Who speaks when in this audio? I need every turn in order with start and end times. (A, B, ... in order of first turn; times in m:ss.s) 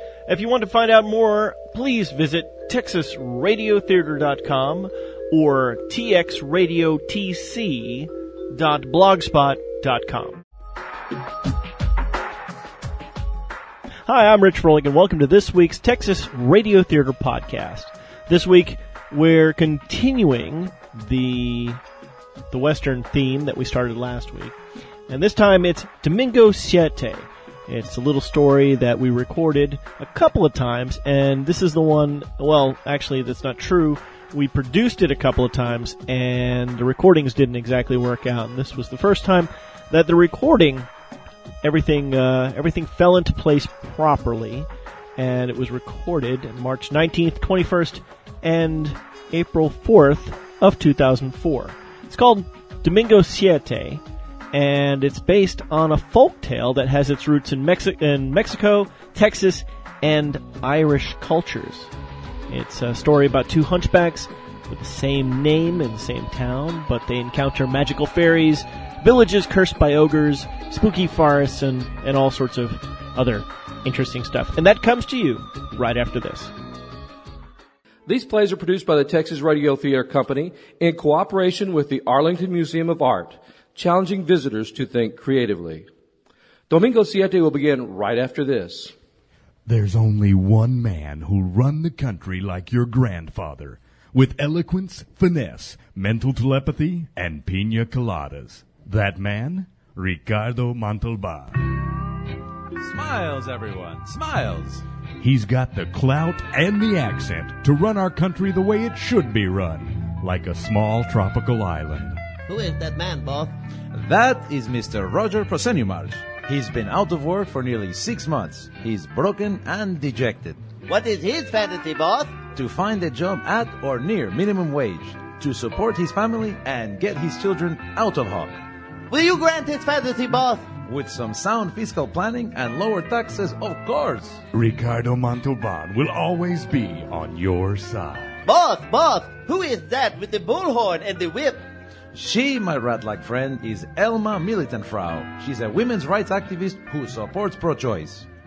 0:00.3-0:10.4 A
0:14.0-0:21.8 A
0:22.5-0:24.5 A
0:25.1-0:40.9 A
0:41.6-1:01.9 A
1:02.5-1:16.5 A
1:18.0-1:25.9 B
1:26.7-1:28.9 B
1:29.6-1:41.6 C
1:42.8-1:44.8 D
1:45.2-1:52.2 C
1:52.5-1:53.5 E
1:53.9-2:00.6 D
2:00.9-2:02.4 E
2:02.5-2:08.6 D
2:09.1-2:10.7 E
2:10.8-2:14.4 D
2:14.5-2:18.4 C
2:18.4-2:21.6 E
2:22.1-2:28.3 D